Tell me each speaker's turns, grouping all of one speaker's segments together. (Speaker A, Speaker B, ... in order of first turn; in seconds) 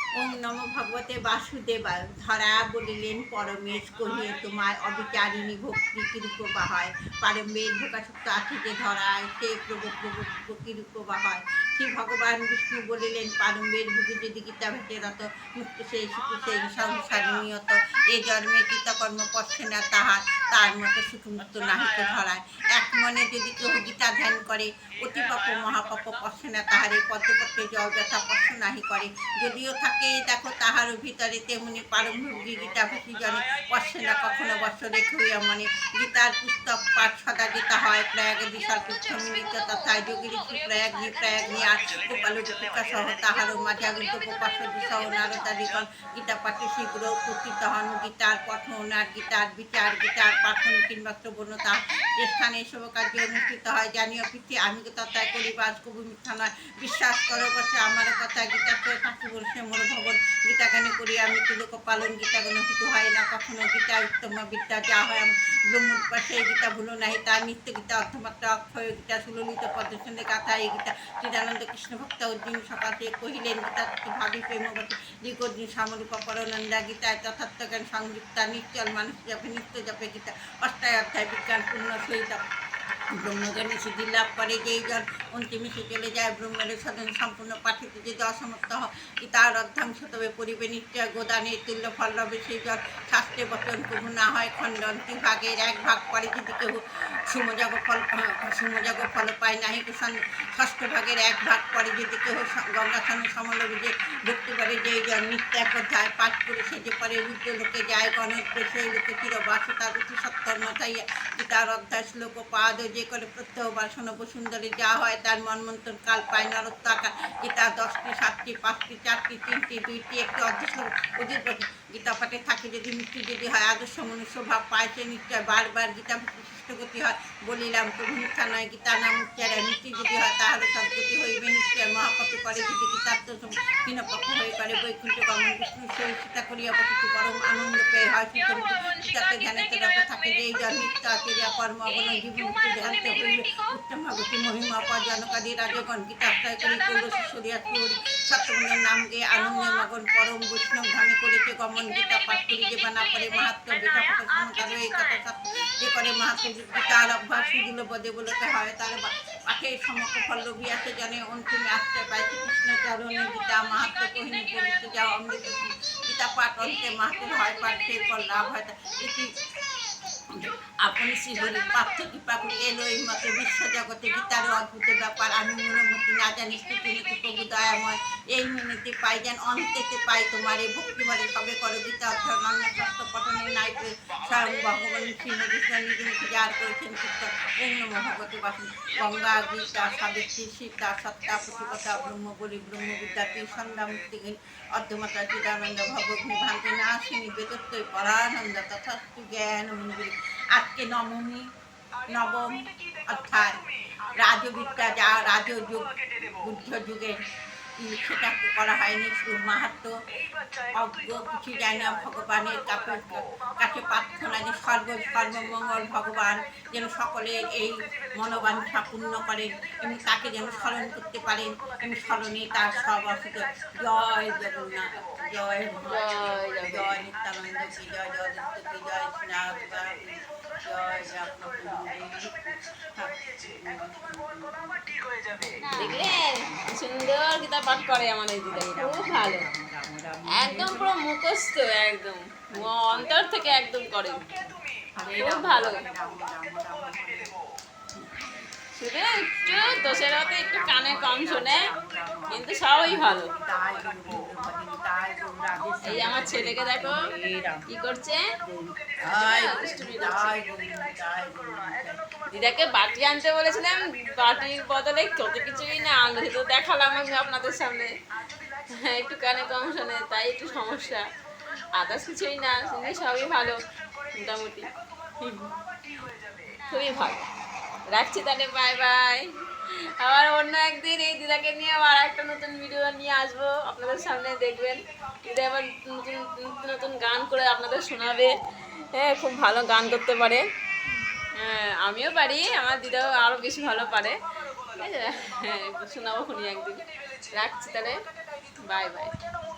Speaker A: 0.2-82.4, 83.2-169.3, 170.3-201.4, 202.1-207.2, 207.8-210.0, 210.5-240.9, 242.5-247.4, 247.9-248.5, 249.2-257.7, 258.4-262.2, 275.2-275.8
Speaker B: 138.7-139.5, 225.9-227.0, 235.7-239.5, 240.3-244.2, 245.2-245.9, 248.8-251.7, 252.3-253.3, 255.8-257.0, 257.7-258.3, 259.0-260.4, 262.3-267.9, 268.7-271.1, 271.8-273.6, 274.1-274.7, 276.6-277.3, 277.9-290.4, 291.3-298.0, 298.6-299.1